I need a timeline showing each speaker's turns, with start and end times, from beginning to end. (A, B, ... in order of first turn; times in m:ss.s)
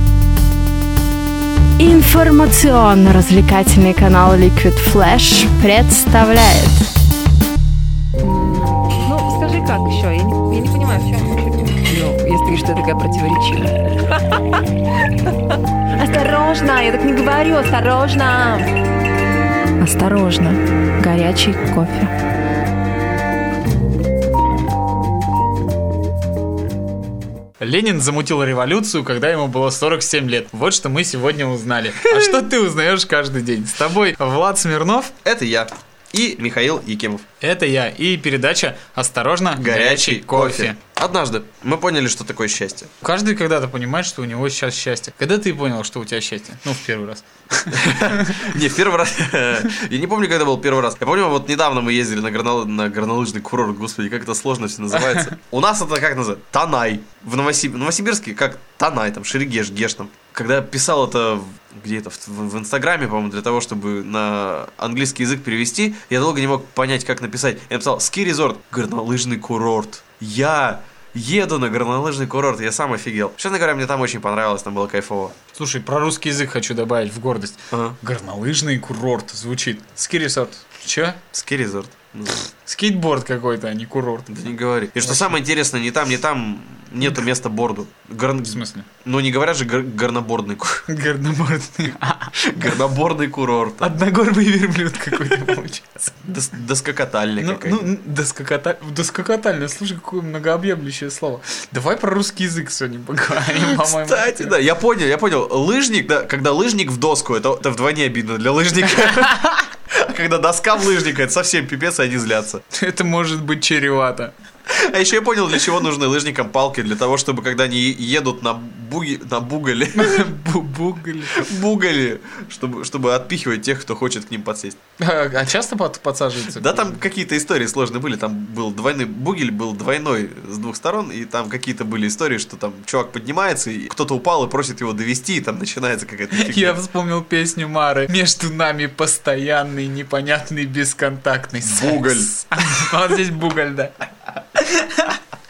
0:01.8-0:06.9 A
0:08.2-0:14.4 B
0:16.0-0:18.7 B
0:19.8-0:22.1 B
0:27.6-0:35.1 C
0:35.2-0:37.2 D
0:37.4-0:40.8 C
0:39.6-0:42.9 D
0:43.0-0:48.5 C
0:47.7-1:15.3 D
0:55.0-0:55.2 C
1:15.5-1:21.2 C
1:17.7-1:18.0 D
1:21.3-1:22.4 D
1:22.6-1:24.3 C
1:24.3-1:30.9 D
1:25.0-1:25.3 C
1:28.5-1:28.9 C
1:30.9-1:32.3 C
1:32.4-1:33.9 D
1:33.8-1:36.2 C
1:36.2-1:37.9 D
1:37.4-1:44.5 C
1:43.5-1:52.6 D
1:52.7-1:54.3 C
1:54.7-2:00.3 D
1:59.9-2:01.4 C
2:01.3-2:04.8 D
2:05.0-2:07.0 C
2:06.5-2:16.8 D
2:16.3-2:25.2 C
2:21.6-2:22.9 D